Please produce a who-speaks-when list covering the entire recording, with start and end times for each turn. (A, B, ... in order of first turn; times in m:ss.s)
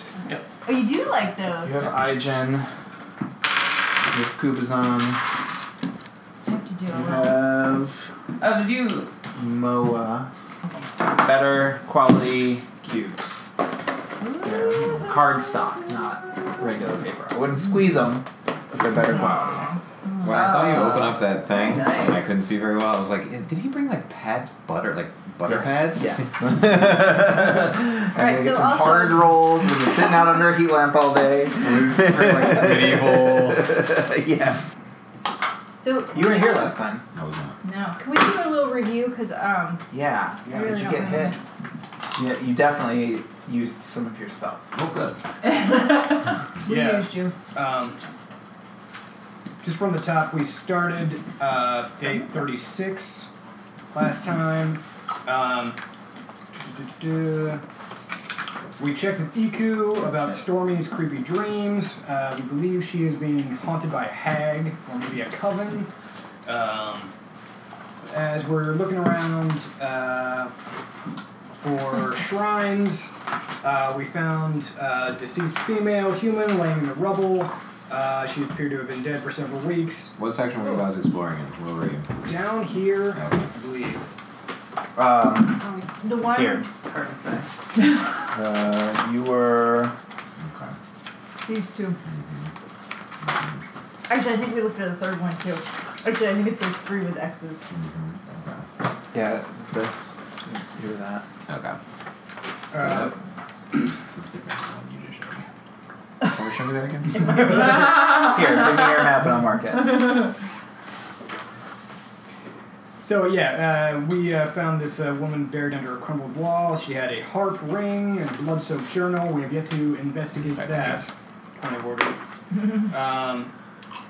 0:00.6-0:01.8 A
0:01.6-0:02.7 B
0:04.1-0:05.2 B
0:06.4-0:07.4 A
0:06.9-0:08.1 B
0:08.4-0:09.1 C
0:09.3-0:10.3 B
0:11.2-0:13.2 B
0:14.2-0:15.0 A
0:14.4-0:19.7 B
0:14.8-0:15.0 D
0:19.2-0:20.4 A
0:20.2-0:26.2 D
0:20.2-0:22.3 C
0:25.4-0:34.6 B
0:28.1-0:29.7 A
0:31.6-0:33.8 D
0:35.8-0:36.7 A
0:36.1-0:37.0 B
0:37.1-0:37.6 D
0:37.6-0:39.8 A
0:39.9-0:41.3 B
0:40.4-0:40.8 E
0:40.5-0:41.3 A
0:42.1-0:44.7 B
0:44.7-0:45.2 D
0:45.4-0:46.4 C
0:46.6-0:47.3 A
0:46.6-0:48.0 E
0:49.6-0:53.3 E
0:53.9-0:55.8 E
0:56.5-0:57.6 E
0:58.8-1:05.9 E
1:06.4-1:07.1 E
1:08.1-1:10.5 E
1:11.6-1:20.1 E
1:20.2-1:22.2 D
1:22.2-1:24.0 E
1:23.1-1:23.5 D
1:24.9-1:25.6 B
1:25.6-1:26.6 A
1:26.2-1:26.6 B
1:26.8-1:27.4 C
1:28.3-1:29.9 B
1:30.4-1:30.8 D
1:31.4-1:32.0 A
1:32.1-1:32.5 D
1:33.2-1:33.6 D
1:34.1-1:37.6 A
1:37.7-1:38.6 D
1:39.1-1:41.2 B
1:41.5-1:41.8 D
1:42.7-1:43.1 E
1:42.7-1:43.1 D
1:43.7-1:45.4 D
1:46.2-1:47.4 D
1:47.3-1:50.2 B
1:53.0-2:03.5 E
2:00.3-2:01.0 D